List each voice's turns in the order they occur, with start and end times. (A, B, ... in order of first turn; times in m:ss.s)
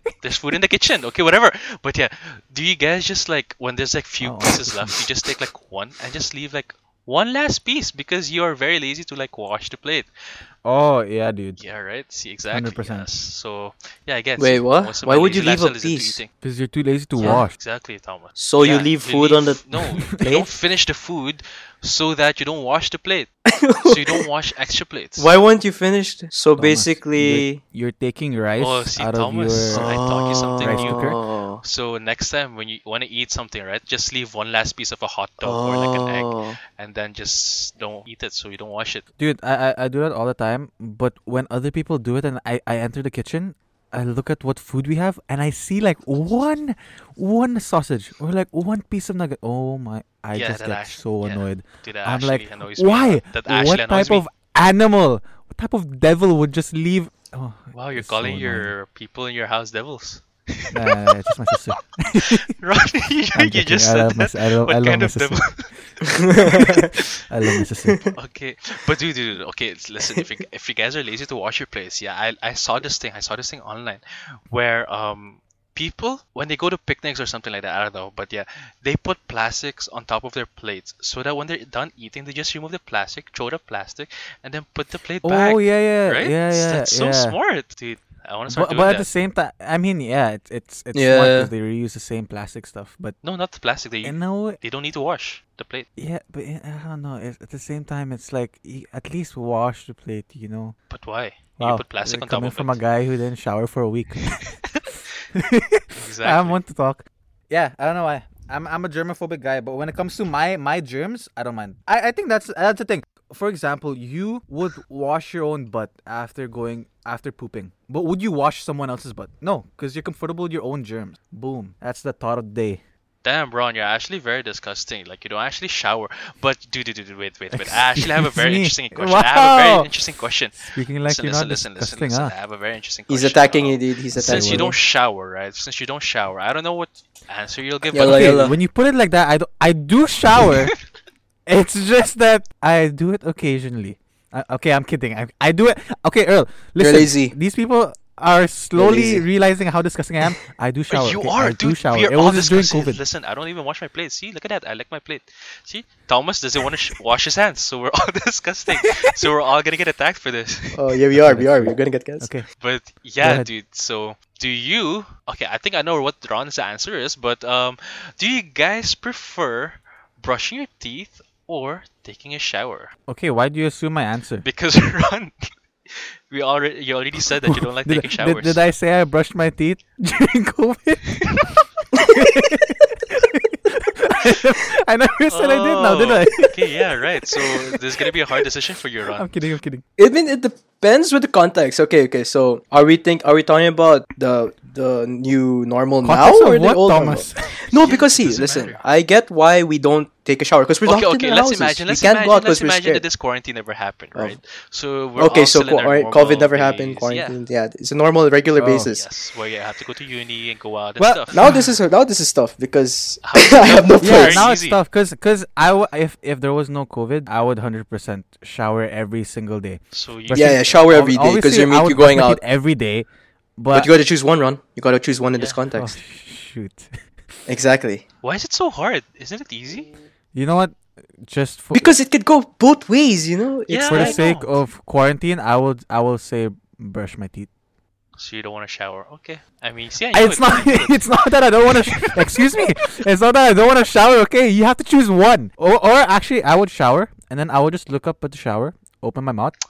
0:00.2-0:10.1 A
0:04.2-0:05.1 B
0:10.6-0:11.6 B
0:11.6-0:16.3 A
0:12.5-0:13.1 B
0:14.4-0:16.2 C
0:16.4-0:17.5 B
0:17.2-0:23.3 A
0:18.4-0:20.5 C
0:23.5-0:24.2 C
0:23.8-0:25.3 A
0:25.2-0:27.6 C
0:26.6-0:29.9 B
0:28.6-0:39.0 A
0:29.7-0:31.6 C
0:30.6-0:31.2 B
0:35.4-0:36.6 C
0:39.2-0:58.7 B
0:50.3-0:54.2 A
0:57.7-1:05.7 A
1:00.7-1:02.5 B
1:03.4-1:05.4 B
1:06.0-1:06.9 C
1:06.4-1:08.0 B
1:07.8-1:08.1 C
1:08.2-1:29.1 A
1:25.2-1:27.4 B
1:28.5-1:33.2 B
1:30.9-1:31.5 C
1:33.2-1:35.9 A
1:34.0-1:34.6 B
1:36.0-1:40.8 B
1:40.9-1:42.8 A
1:41.6-1:44.6 B
1:45.3-2:02.8 B
1:46.0-1:46.6 A
2:03.2-2:18.5 A
2:07.5-2:09.9 B
2:10.6-2:12.3 B
2:13.1-2:14.7 C
2:14.2-2:14.8 B
2:17.9-2:18.6 C
2:18.0-2:20.7 B
2:21.5-2:33.0 B
2:26.8-2:27.4 C
2:28.8-2:29.3 C
2:30.9-2:40.8 A
2:38.8-2:39.2 B
2:40.7-2:42.3 C
2:41.2-2:42.4 B
2:42.6-2:52.9 A
2:43.2-2:43.5 B
2:53.1-2:54.5 B
2:54.4-2:55.3 A
2:55.9-2:58.6 A
2:57.4-3:01.1 B
3:01.9-3:07.8 B
3:05.3-3:09.4 A
3:09.2-3:09.8 B
3:10.0-3:23.0 C
3:16.0-3:17.4 B
3:17.4-3:18.8 A
3:20.8-3:27.4 A
3:25.2-3:29.1 C
3:28.6-3:28.9 B
3:28.9-3:31.5 A
3:31.0-3:31.6 B
3:31.3-3:34.5 C
3:33.2-3:34.8 A
3:34.0-3:43.1 B
3:39.9-3:40.6 A
3:40.3-3:42.4 C
3:43.6-3:43.9 B
3:43.7-3:46.0 C
3:45.7-3:46.9 B
3:47.5-3:48.0 C
3:48.2-3:49.9 A
3:50.4-3:50.8 B
3:51.3-3:52.0 B
3:51.7-3:54.2 C
3:53.7-3:54.5 A
3:53.9-3:57.5 B
3:58.2-4:02.3 A
4:00.1-4:09.6 B